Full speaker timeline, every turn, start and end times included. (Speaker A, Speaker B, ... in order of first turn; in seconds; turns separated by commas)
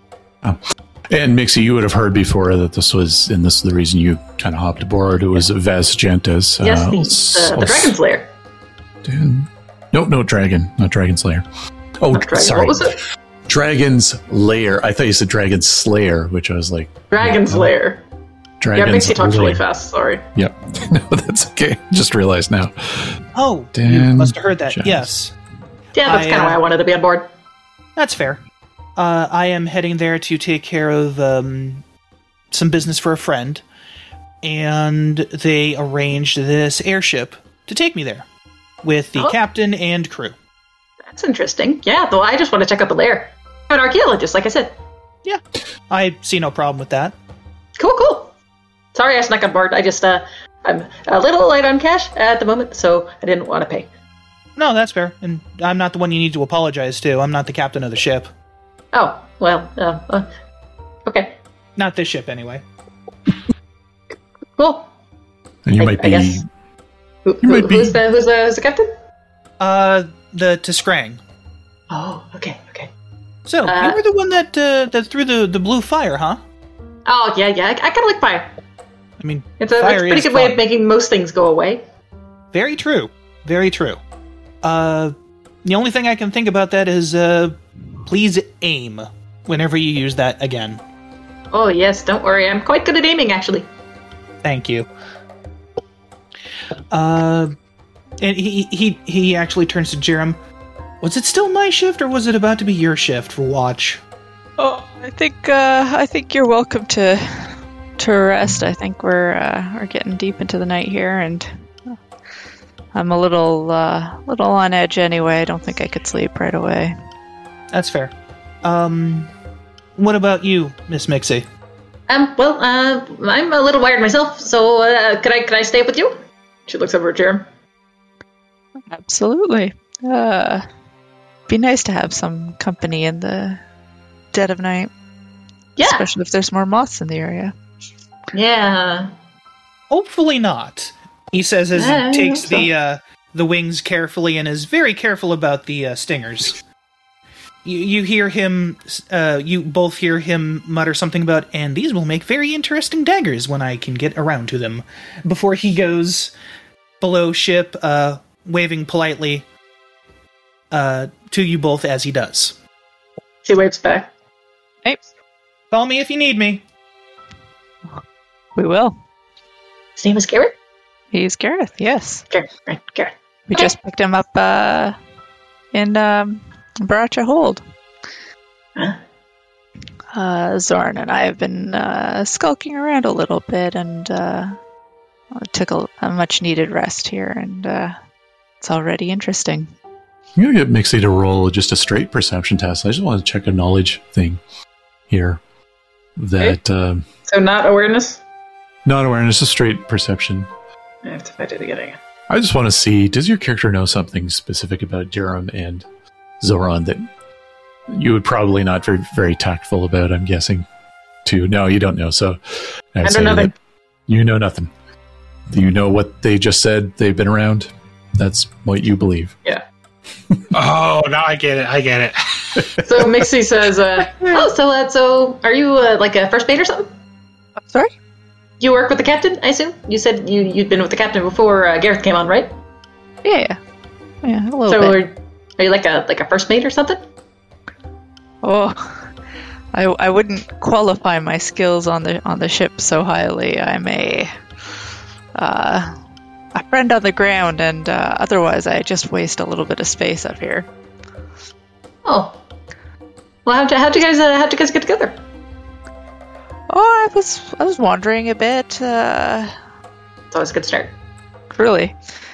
Speaker A: 0.4-8.0, Speaker B: 6.6-8.3, Speaker A: 9.0-11.4, Speaker A: 12.0-12.9, Speaker B: 12.1-13.0, Speaker A: 13.5-17.7, Speaker B: 17.1-18.0, Speaker A: 18.6-19.6, Speaker B: 18.7-20.2, Speaker A: 20.3-23.2, Speaker C: 23.3-25.3, Speaker A: 23.7-25.1, Speaker B: 25.9-27.3, Speaker C: 26.1-26.6, Speaker C: 27.9-28.4, Speaker C: 28.9-31.8, Speaker C: 32.5-33.6, Speaker C: 34.4-38.3, Speaker C: 38.8-40.4, Speaker B: 41.1-44.8, Speaker C: 45.2-47.1, Speaker B: 47.8-48.3, Speaker B: 48.9-53.9, Speaker C: 54.5-58.3, Speaker B: 58.9-60.3, Speaker B: 61.0-61.4, Speaker C: 61.8-62.6, Speaker B: 64.6-64.9, Speaker A: 65.6-66.5, Speaker B: 65.8-66.4, Speaker B: 67.2-68.9, Speaker A: 67.4-68.0, Speaker C: 69.6-71.2, Speaker B: 71.9-72.9, Speaker C: 73.5-76.4, Speaker B: 73.6-74.0, Speaker B: 77.0-78.5, Speaker C: 79.2-80.6, Speaker B: 79.6-81.8, Speaker C: 82.5-84.0, Speaker C: 84.6-90.8, Speaker B: 91.5-93.7, Speaker C: 94.4-94.9, Speaker C: 96.9-97.5, Speaker C: 98.2-100.4, Speaker C: 101.0-104.0, Speaker D: 104.6-111.9, Speaker D: 112.9-116.9, Speaker C: 117.7-119.3, Speaker C: 120.0-121.5, Speaker B: 122.1-127.5, Speaker D: 128.9-130.6, Speaker D: 131.5-133.6, Speaker D: 134.3-134.9, Speaker B: 135.8-136.1, Speaker D: 135.8-137.5, Speaker B: 138.3-139.1, Speaker C: 139.9-146.6, Speaker B: 141.8-142.7, Speaker C: 147.6-156.3, Speaker C: 157.0-159.4, Speaker C: 160.7-162.6, Speaker B: 163.4-164.1, Speaker C: 165.7-166.6, Speaker D: 168.6-168.9, Speaker B: 169.9-170.5, Speaker D: 171.1-172.2, Speaker B: 172.3-173.7, Speaker D: 173.5-175.0, Speaker D: 175.7-177.6, Speaker D: 180.1-184.6, Speaker D: 185.4-187.9, Speaker D: 188.6-189.7, Speaker A: 190.4-194.4, Speaker A: 195.1-195.4, Speaker A: 196.2-197.1, Speaker B: 197.3-198.2, Speaker A: 198.9-200.5, Speaker B: 201.0-202.0, Speaker A: 202.3-205.9, Speaker A: 206.4-207.0, Speaker A: 207.9-210.7, Speaker A: 211.2-213.5, Speaker B: 213.0-213.5, Speaker A: 214.1-214.7, Speaker A: 215.5-219.4, Speaker E: 220.5-222.7, Speaker B: 222.8-226.9, Speaker D: 227.7-227.9, Speaker B: 228.6-232.5, Speaker D: 233.2-233.6, Speaker D: 234.2-235.0, Speaker B: 234.7-237.0, Speaker D: 238.4-239.0, Speaker D: 239.7-244.3, Speaker D: 245.4-245.9, Speaker D: 246.5-250.7, Speaker B: 252.1-252.4, Speaker B: 253.4-255.2, Speaker D: 256.7-259.5, Speaker B: 260.3-260.9, Speaker D: 261.5-261.9